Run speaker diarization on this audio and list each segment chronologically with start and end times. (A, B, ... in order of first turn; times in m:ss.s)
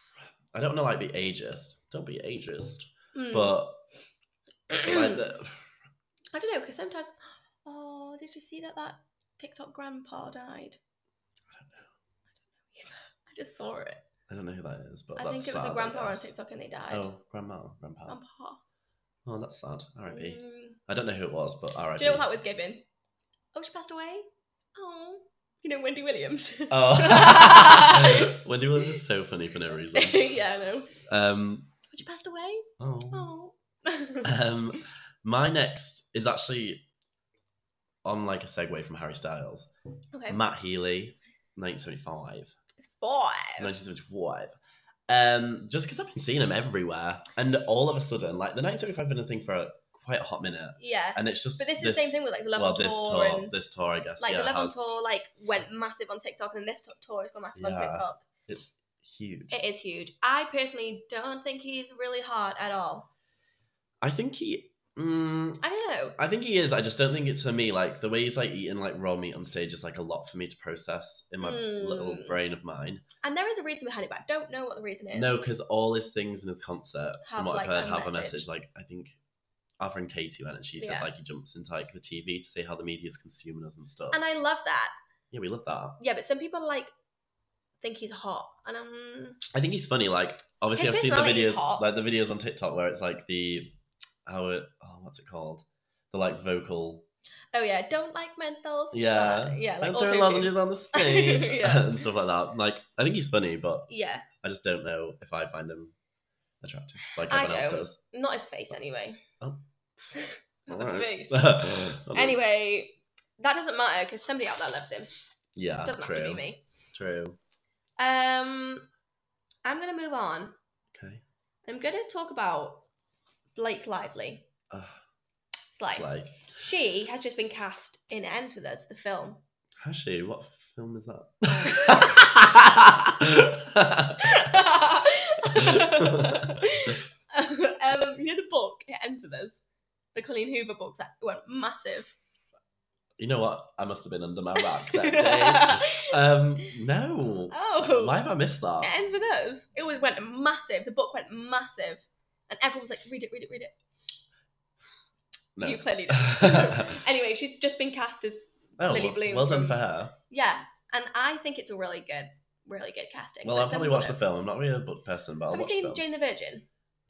0:00.5-0:03.8 A
0:03.1-0:03.6 B
0:04.7-0:05.2 B
0:04.8-0:05.7 A
0:06.3-0:10.8 B
0:11.5-0:11.9 A
0:12.7-0:14.0 B
0:14.3-0:16.3 A
0:15.2-0:17.1 B
0:16.9-0:18.2 A
0:18.1-0:18.6 B
0:19.3-0:22.3 A
0:20.1-0:20.8 B
0:22.0-0:22.8 B
0:23.5-0:29.0 B
0:26.7-0:30.2 A
0:29.9-0:31.0 B
0:31.1-0:31.7 A
0:31.9-0:34.3 B
0:32.8-0:33.3 A
0:34.2-0:36.8 A
0:38.0-0:39.7 A
0:40.1-0:40.4 B
0:40.3-0:42.5 A
0:42.8-0:43.7 B
0:43.6-0:44.6 A
0:45.1-0:54.9 A
0:50.8-0:53.5 B
0:54.2-0:58.2 B
0:57.6-0:59.6 A
0:59.5-1:03.1 B
1:04.0-1:05.6 A
1:05.6-1:06.2 B
1:06.2-1:13.0 A
1:11.4-1:12.4 B
1:13.2-1:15.5 B
1:15.1-1:19.2 A
1:17.3-1:18.5 B
1:19.8-1:24.2 A
1:20.8-1:21.1 B
1:24.1-1:25.0 B
1:25.3-1:26.0 A
1:26.0-1:26.9 B
1:27.8-1:29.4 B
1:29.5-1:37.1 A
1:30.8-1:31.9 B
1:37.5-1:42.0 B
1:38.9-1:43.9 A
1:43.9-1:44.3 B
1:44.4-1:45.9 A
1:46.6-1:48.0 A
1:47.2-1:49.2 B
1:50.1-1:55.1 B
1:50.7-1:52.4 A
1:55.6-1:57.4 A
1:55.8-1:56.6 B
1:58.0-1:58.9 B
1:59.6-2:00.6 B
2:00.9-2:01.2 A
2:01.7-2:02.8 B
2:03.6-2:04.4 B
2:05.7-2:09.4 B
2:05.9-2:06.4 A
2:09.8-2:14.6 A
2:11.5-2:12.3 B
2:14.2-2:19.6 B
2:15.5-2:16.6 A
2:20.1-2:22.2 B
2:23.2-2:28.9 A
2:24.6-2:26.1 B
2:27.5-2:28.2 B
2:28.8-2:33.7 B
2:35.6-2:37.0 A
2:35.6-2:44.2 B
2:38.8-2:40.2 A
2:43.4-2:46.0 A
2:45.5-2:46.7 B